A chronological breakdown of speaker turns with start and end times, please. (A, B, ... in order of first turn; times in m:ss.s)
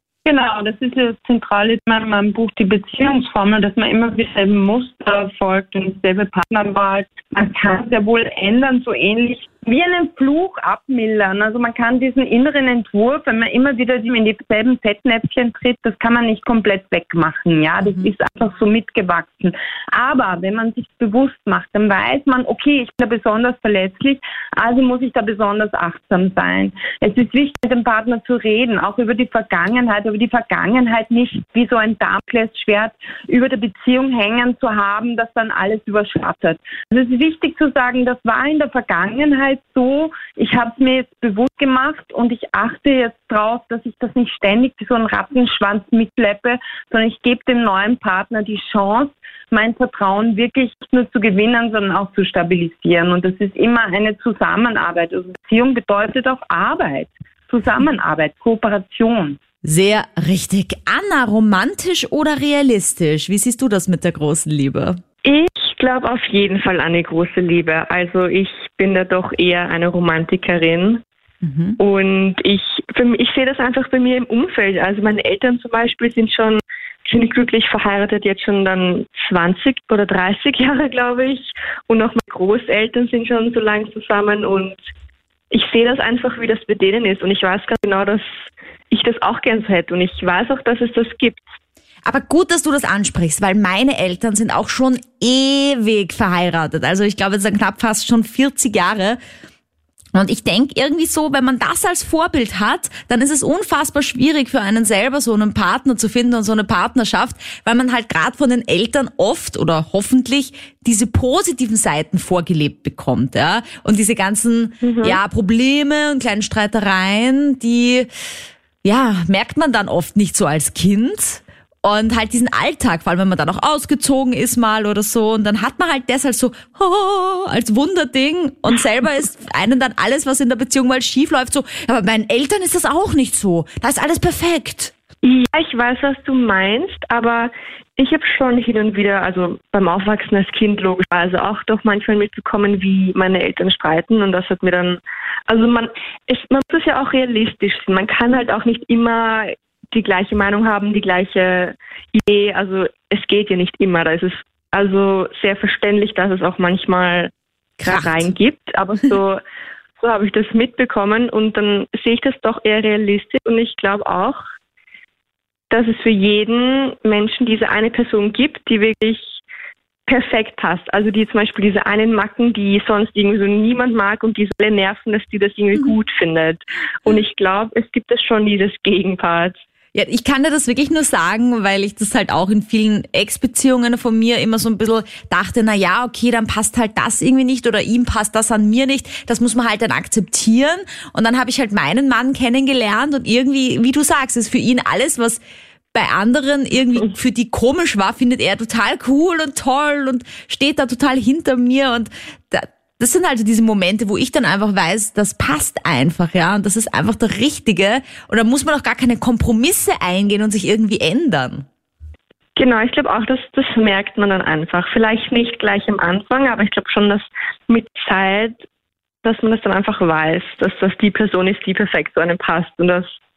0:00.2-0:59.4 A
0:17.8-0:18.1 B
0:59.6-1:05.0 B
1:05.2-1:11.0 C
1:11.4-1:11.8 B
1:11.8-1:24.8 C
1:25.5-1:28.3 C
1:28.9-1:31.6 C
1:32.1-1:39.2 B
1:40.2-1:58.1 B
1:54.8-1:55.2 C
1:58.8-2:14.9 B
2:15.2-2:37.3 C
2:37.8-2:38.3 B
2:37.8-2:39.4 C
2:40.0-2:44.4 C
2:45.7-2:49.4 C
2:50.1-2:59.6 C
2:59.9-3:15.4 B
3:15.9-3:31.6 B
3:32.6-3:38.6 C
3:39.2-3:43.2 C